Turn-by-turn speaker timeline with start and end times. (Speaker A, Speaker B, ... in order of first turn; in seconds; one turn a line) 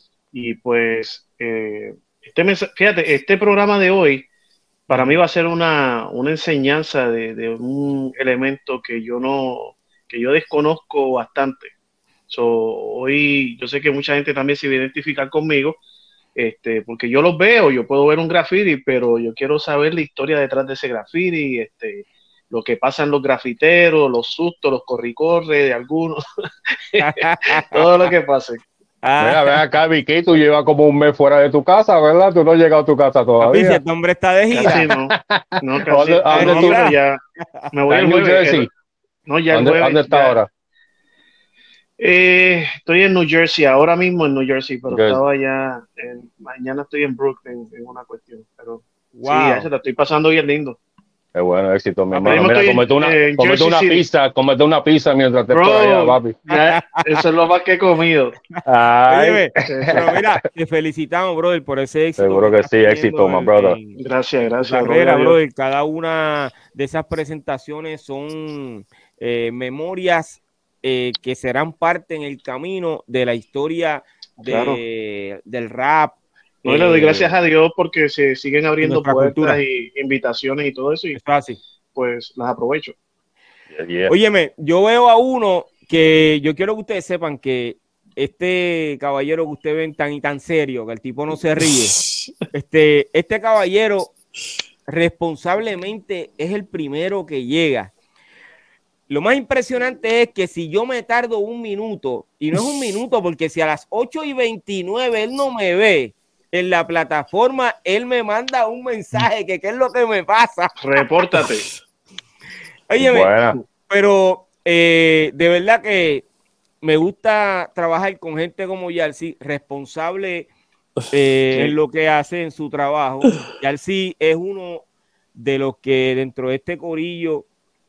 Speaker A: 0.3-4.3
Speaker A: 4.9-11.7
Speaker A: 12.3-15.8
Speaker A: 16.4-26.2
Speaker A: 26.9-28.6
Speaker B: 27.0-27.7
Speaker B: 29.0-29.6
Speaker C: 29.2-33.8
Speaker B: 33.4-34.8
Speaker A: 34.5-37.2
Speaker C: 34.6-36.9
Speaker B: 36.3-37.7
Speaker A: 37.7-38.6
Speaker C: 37.9-38.7
Speaker A: 39.3-40.4
Speaker C: 39.5-40.5
Speaker A: 42.0-50.8
Speaker C: 44.9-45.2
Speaker B: 49.1-49.7
Speaker C: 51.3-56.4
Speaker A: 52.1-54.0
Speaker A: 55.5-58.3
Speaker B: 56.5-57.2
Speaker B: 58.5-64.0
Speaker C: 58.6-60.4
Speaker A: 59.7-60.0
Speaker C: 62.2-63.8
Speaker A: 64.0-65.4
Speaker B: 64.6-76.1
Speaker A: 74.4-74.8
Speaker A: 76.6-81.2
Speaker B: 76.7-77.0
Speaker B: 78.8-79.6
Speaker B: 81.1-81.6
Speaker A: 81.9-82.9
Speaker C: 83.7-84.1
Speaker B: 84.1-92.0
Speaker B: 92.5-94.1
Speaker B: 94.9-97.9
Speaker B: 99.1-110.7
Speaker A: 110.8-111.7
Speaker B: 112.9-113.3
Speaker C: 113.0-113.6
Speaker B: 113.9-116.2
Speaker B: 116.8-120.5
Speaker B: 121.1-124.8
Speaker B: 125.3-127.5